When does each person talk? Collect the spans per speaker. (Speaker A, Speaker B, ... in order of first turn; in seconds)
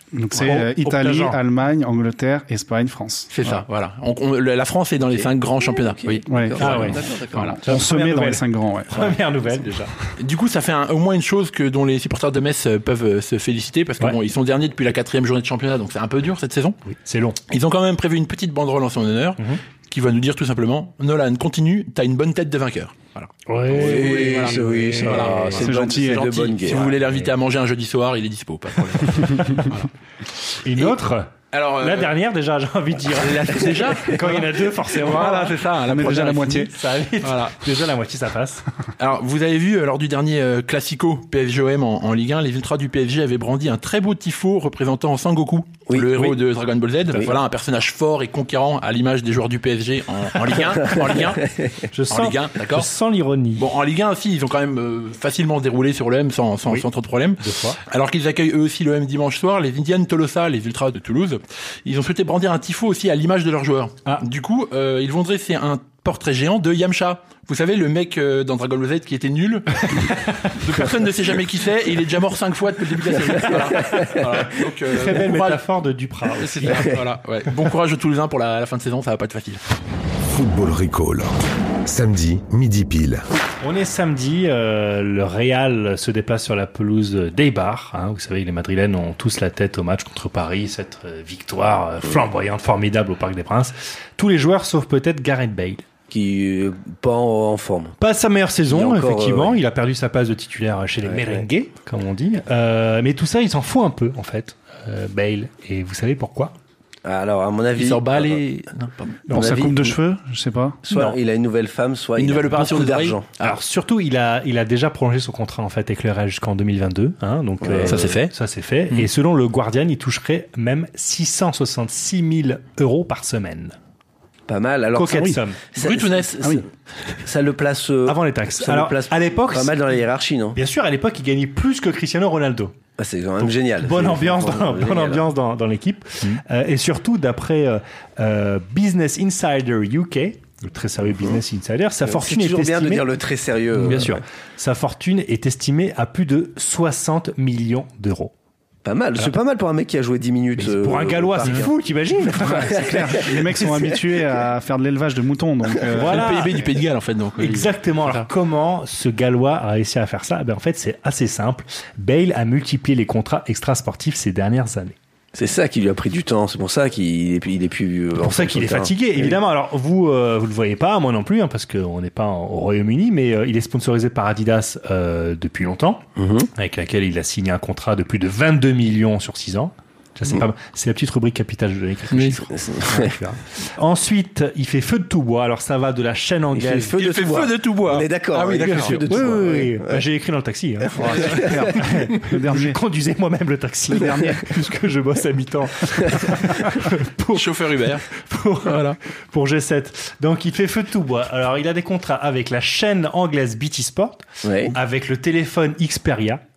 Speaker A: 0.1-3.3, 6.3-6.8, 7.5-9.2, 25.6-26.4, 35.0-36.7, 109.3-110.8, 152.4-156.6, 191.0-192.8, 193.9-194.4
Speaker B: 0.3-1.4, 6.6-7.0, 7.6-9.9, 16.9-17.4, 23.5-25.6, 27.0-27.3, 30.6-38.6, 51.9-53.6, 57.4-57.8, 70.1-70.5, 74.9-76.9, 83.6-95.8, 98.0-106.5, 109.3-109.5, 113.4-123.8, 124.9-125.6, 128.1-129.9, 130.5-132.7, 133.4-143.1, 143.8-148.3, 150.6-153.3, 155.9-156.6, 157.4-164.9, 168.2-176.0, 176.5-186.9, 188.6-197.5, 198.1-206.4
Speaker C: 3.3-7.5, 10.2-16.8, 17.5-29.9, 31.5-32.1, 33.1-36.7, 37.2-37.6, 39.0-51.4, 52.1-52.9, 53.5-75.6, 76.4-79.6, 107.8-109.2, 112.2-113.6, 117.8-118.3, 125.8-126.6, 156.0-158.3, 187.0-189.3, 197.3-198.1, 198.6-199.0
Speaker D: 5.1-7.6, 23.7-26.9, 45.9-46.3, 47.1-47.4, 73.3-74.2, 76.7-77.0, 96.1-98.0, 98.7-99.6, 101.0-101.5, 107.0-108.4, 109.3-110.0, 110.8-113.2, 117.6-118.0, 124.5-126.6, 127.2-130.6, 133.0-135.2, 142.0-144.2, 148.8-151.7, 152.4-154.1, 165.3-169.4, 176.2-176.5, 182.5-183.1, 186.5-190.0, 190.8-191.7, 204.4-204.7
Speaker E: 80.3-83.2